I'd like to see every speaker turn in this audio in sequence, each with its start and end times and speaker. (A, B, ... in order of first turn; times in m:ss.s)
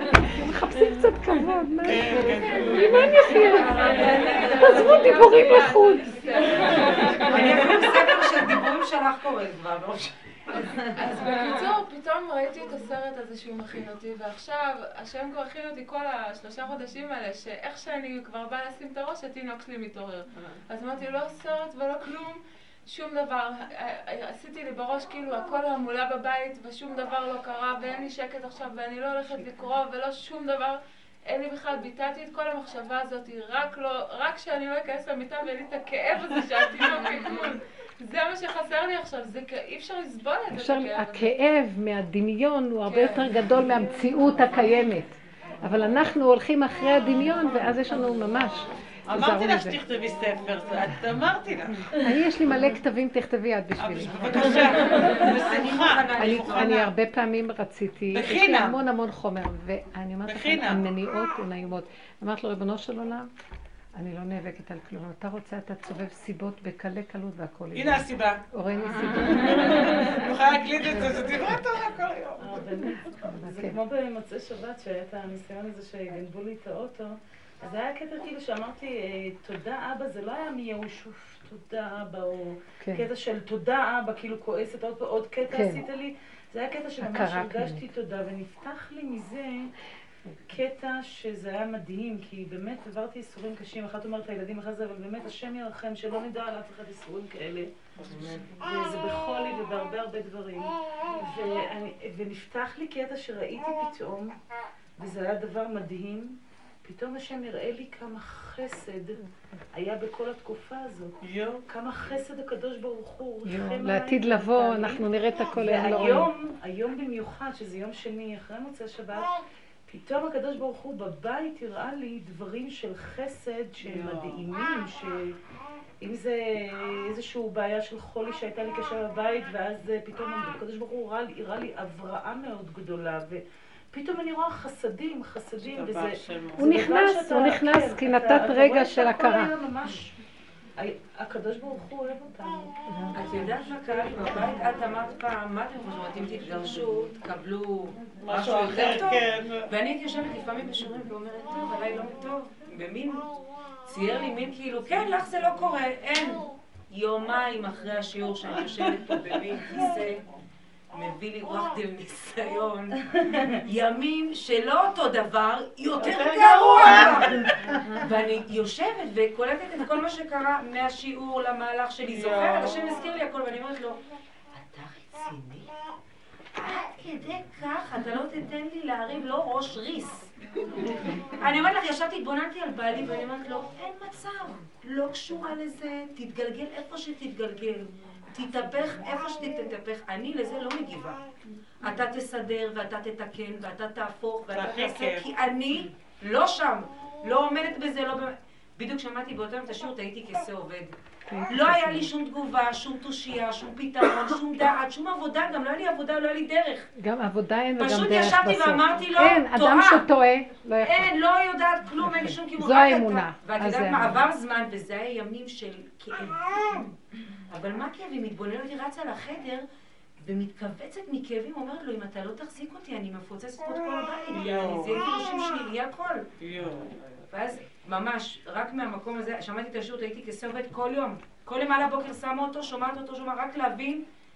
0:00.2-0:06.1 A
0:01.8-0:03.3 B
0:02.2-0:08.1 C
0:03.8-0:04.7 D
0:06.6-0:10.9 D
0:10.5-0:41.3 C
0:40.5-0:49.8 A
0:42.8-0:44.9 C
0:49.1-0:51.9 B
0:51.9-0:54.9 A
0:53.8-0:56.9 B
0:54.5-0:56.9 D
0:56.2-1:03.3 A
0:58.1-0:58.8 B
1:00.2-1:00.8 B
1:03.9-1:10.1 A
1:07.7-1:08.4 B
1:09.0-1:12.8 B
1:12.4-1:29.7 E
1:13.2-1:13.8 A
1:25.5-1:25.8 A
1:27.0-1:27.8 A
1:30.5-1:44.3 E
1:38.0-1:38.4 B
1:45.0-1:49.2 E
1:49.7-1:59.3 E
1:51.2-1:51.6 B
1:53.4-1:56.3 A
1:59.9-2:05.3 E
2:03.8-2:04.4 B
2:06.0-2:20.2 E
2:15.6-2:16.7 B
2:16.6-2:19.5 A
2:20.8-2:22.7 E
2:22.9-2:23.2 A
2:23.1-2:33.3 D
2:28.2-2:29.7 B
2:33.8-2:40.2 D
2:40.9-2:54.0 D
2:46.0-2:47.8 B
2:52.0-2:53.0 B
2:54.5-2:55.7 D
2:56.6-3:11.2 D
3:11.8-3:20.9 D
3:14.5-3:15.3 B
3:21.3-3:22.1 A
3:21.5-3:26.9 D
3:27.0-3:31.2 A
3:27.8-3:30.0 D
3:30.8-3:37.0 D
3:32.0-3:34.2 A
3:37.5-3:39.6 D
3:40.2-3:46.3 D
3:44.3-3:45.1 B
3:46.4-3:47.2 B
3:47.3-3:54.0 D